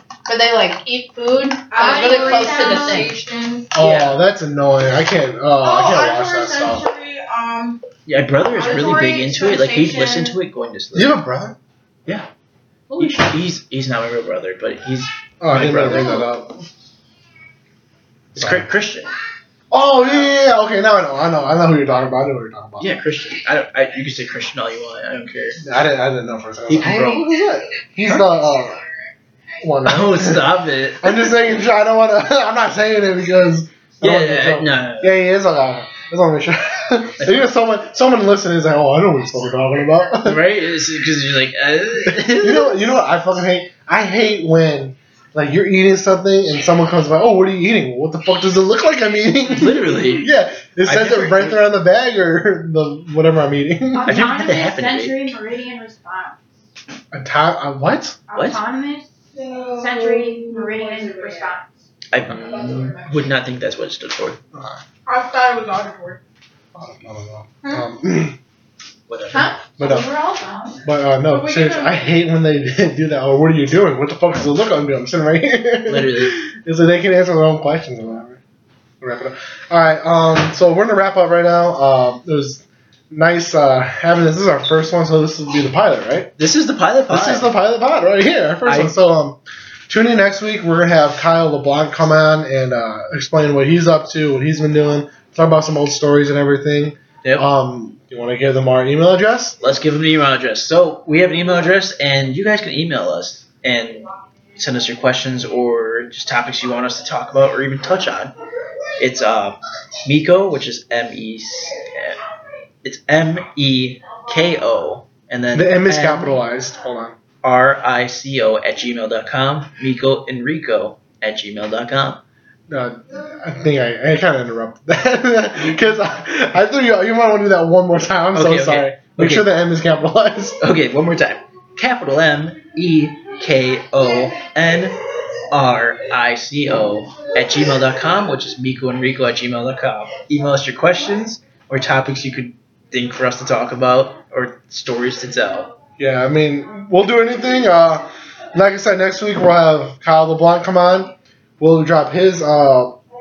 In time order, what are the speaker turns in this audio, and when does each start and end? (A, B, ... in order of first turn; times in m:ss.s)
0:00.2-0:03.2 A
0:01.7-0:03.7 B
0:01.8-0:03.1 C
0:03.7-0:06.8 D
0:03.8-0:04.2 E
0:05.6-0:07.8 B
0:08.0-0:11.2 E
0:08.5-0:10.4 B
0:10.9-0:11.6 D
0:12.9-0:13.3 C
0:13.0-0:16.3 E
0:15.4-0:16.6 D
0:18.3-0:18.6 D
0:18.3-0:19.1 E
0:19.7-0:22.9 D
0:22.8-0:25.6 E
0:25.6-0:28.8 D
0:26.7-0:27.3 E
0:29.6-0:40.5 D
0:29.8-0:31.3 E
0:34.0-0:35.2 E
0:37.2-0:37.5 E
0:40.2-0:42.8 E
0:42.1-0:54.3 D
0:49.5-0:50.3 E
0:50.8-0:51.7 E
0:54.0-0:56.4 C
0:54.0-0:55.3 E
0:57.1-0:58.2 D
0:58.3-0:59.1 C
0:58.3-0:58.6 E
0:59.3-1:01.5 B
0:59.8-1:01.6 C
1:02.1-1:04.4 E
1:02.3-1:03.1 B
1:04.5-1:04.8 D
1:05.0-1:06.2 B
1:06.7-1:08.4 D
1:09.1-1:09.5 E
1:09.3-1:10.8 C
1:09.8-1:10.1 D
1:10.8-1:18.4 D
1:11.3-1:12.2 B
1:15.8-1:16.4 E
1:19.0-1:26.3 D
1:26.4-1:27.5 E
1:27.1-1:39.6 D
1:28.6-1:28.9 E
1:37.2-1:37.5 E
1:39.6-1:48.3 E
1:49.0-1:52.2 E
1:52.8-1:56.3 E
1:55.5-1:57.2 D
1:57.4-2:02.2 E
2:02.7-2:10.6 D
2:08.3-2:09.5 E
2:10.6-2:15.0 E
2:15.5-2:25.7 E
2:26.0-2:33.0 D